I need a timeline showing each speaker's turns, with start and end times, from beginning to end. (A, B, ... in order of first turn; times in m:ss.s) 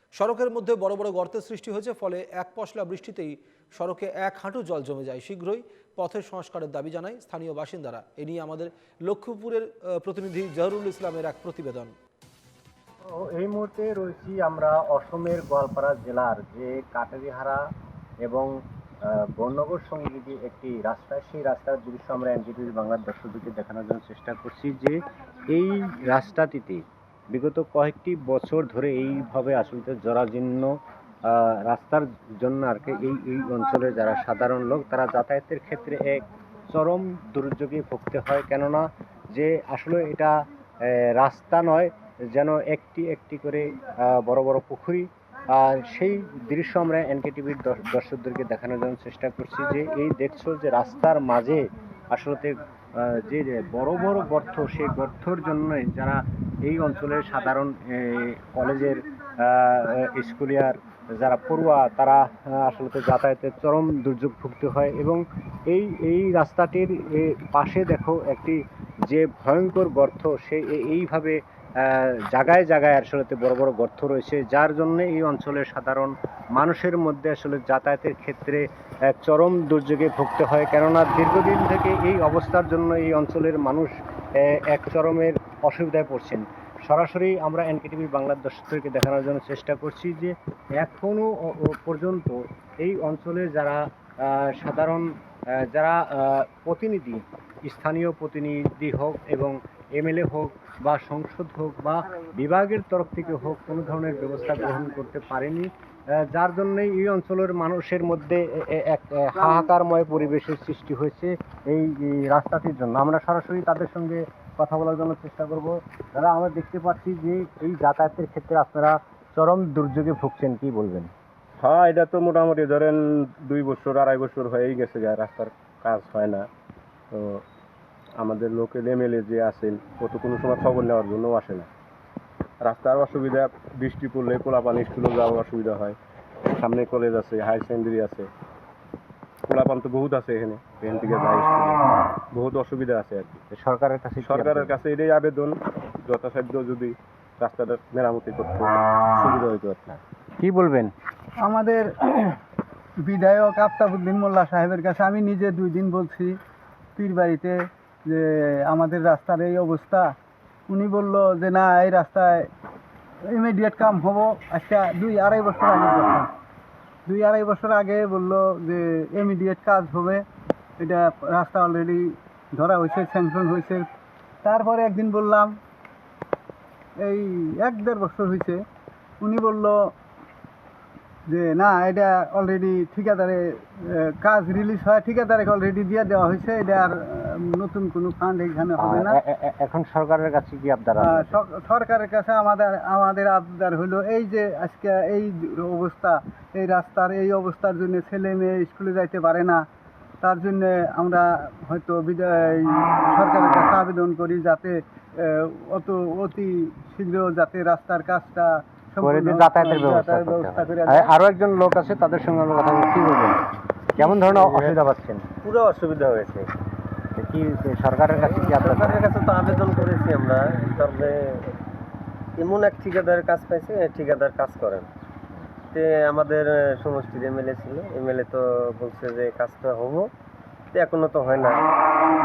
0:00.2-0:11.9 A
0:13.1-0:17.6 B
0:18.2-0:18.5 B
0:19.0-0:30.7 B
0:31.2-2:01.1 B
2:01.6-2:06.5 C
2:07.1-2:07.4 C
2:08.2-2:11.7 C
2:12.6-2:16.0 C
2:16.5-2:18.3 C
2:19.5-2:23.4 C
2:23.5-2:24.8 B
2:24.2-2:30.0 C
2:30.4-2:30.9 B
2:31.4-2:32.3 D
2:33.0-2:36.4 D
2:37.0-2:40.1 D
2:40.7-2:42.5 D
2:43.3-2:46.3 D
2:47.1-2:50.2 D
2:50.8-2:53.9 D
2:54.4-2:55.6 D
2:57.0-2:58.6 D
2:59.2-2:59.8 D
3:01.3-3:09.2 D
3:08.8-3:11.4 B
3:11.0-3:19.6 D
3:20.2-3:31.1 D
3:29.0-3:35.3 B
3:34.0-3:34.7 E
3:35.4-3:36.5 E
3:37.2-3:39.1 B
3:38.6-3:41.5 E
3:42.4-3:44.9 E
3:45.7-3:50.1 E
3:50.7-3:51.7 E